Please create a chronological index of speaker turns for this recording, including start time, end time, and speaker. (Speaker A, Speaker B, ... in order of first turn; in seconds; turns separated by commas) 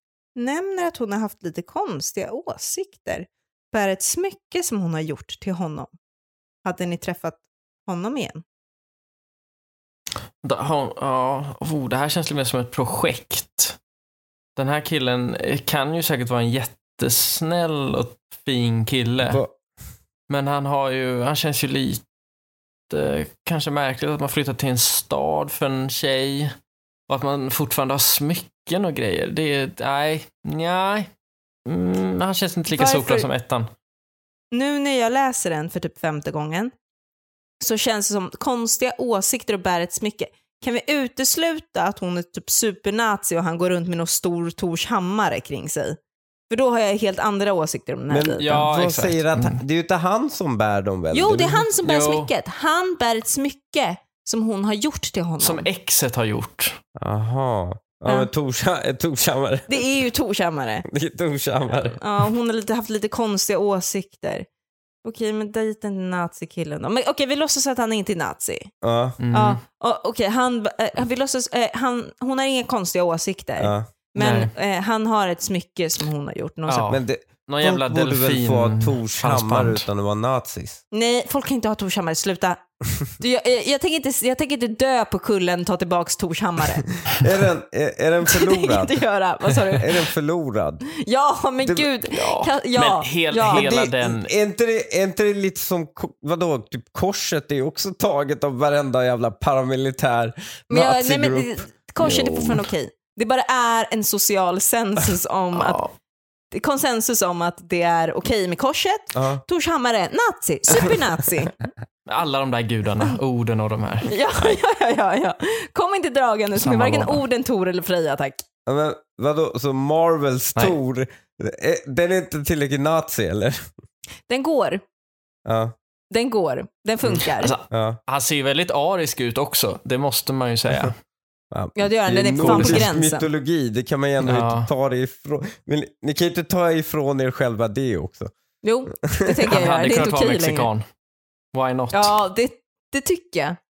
Speaker A: 0.3-5.9, Speaker A: 6.6-8.4, Speaker B: 10.4-13.8, Speaker B: 14.6-19.4, Speaker C: 19.2-19.5, Speaker B: 20.3-22.0, Speaker B: 22.9-26.5, Speaker B: 27.1-31.1, Speaker B: 31.7-33.7, Speaker A: 32.7-33.3, Speaker A: 34.5-36.7, Speaker A: 37.6-48.7, Speaker C: 48.1-51.7, Speaker B: 48.4-49.6, Speaker A: 51.1-55.7, Speaker B: 51.8-52.3, Speaker B: 55.4-56.8, Speaker C: 57.0-59.7, Speaker A: 59.7-60.9, Speaker C: 60.9-62.0, Speaker A: 62.0-64.5, Speaker A: 65.0-68.7, Speaker C: 68.8-69.2, Speaker B: 69.2-69.6, Speaker A: 69.3-77.0, Speaker C: 73.6-73.9, Speaker B: 74.2-74.5, Speaker B: 76.7-79.8, Speaker C: 76.9-80.8, Speaker A: 80.9-82.6, Speaker A: 83.2-86.9, Speaker C: 87.0-89.0, Speaker A: 88.3-90.1, Speaker C: 89.7-90.9, Speaker A: 90.9-93.7, Speaker C: 91.6-91.9, Speaker B: 92.1-94.3, Speaker C: 93.5-102.5, Speaker A: 100.7-105.8, Speaker B: 105.5-105.9, Speaker A: 106.5-111.5, Speaker C: 109.1-109.4, Speaker B: 112.1-114.2, Speaker A: 114.1-118.4, Speaker B: 116.6-117.2, Speaker C: 118.7-123.7, Speaker A: 124.3-124.8, Speaker C: 125.5-125.8, Speaker A: 126.1-127.6, Speaker B: 127.4-130.9, Speaker C: 127.7-128.0, Speaker C: 131.5-138.3, Speaker A: 131.8-133.3, Speaker B: 132.4-132.9, Speaker B: 134.2-134.7, Speaker A: 138.6-140.7, Speaker C: 139.0-139.3, Speaker B: 139.5-140.8, Speaker B: 141.5-142.1, Speaker A: 141.9-143.6